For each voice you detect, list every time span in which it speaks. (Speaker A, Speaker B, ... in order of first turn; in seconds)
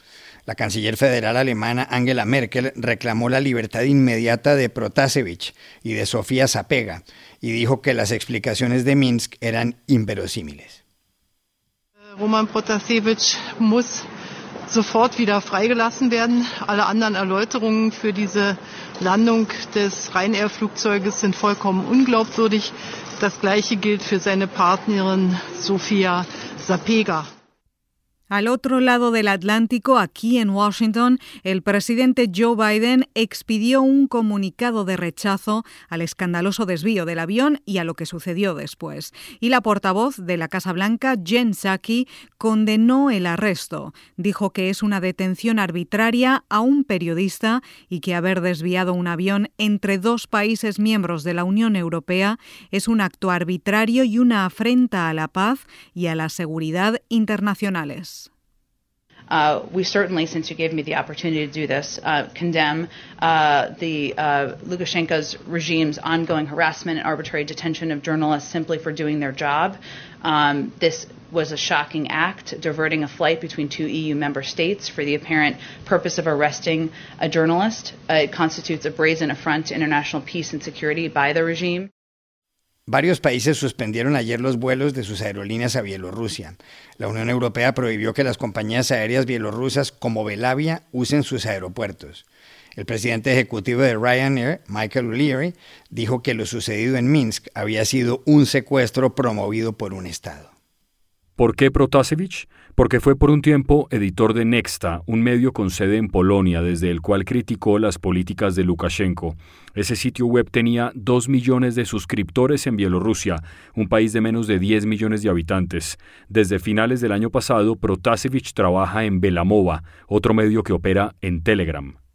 Speaker A: 0.5-10.8, 82.9-100.5
Speaker B: 12.1-14.1, 14.7-27.3
Speaker C: 28.3-58.3
Speaker D: 59.3-81.9
Speaker E: 101.4-122.0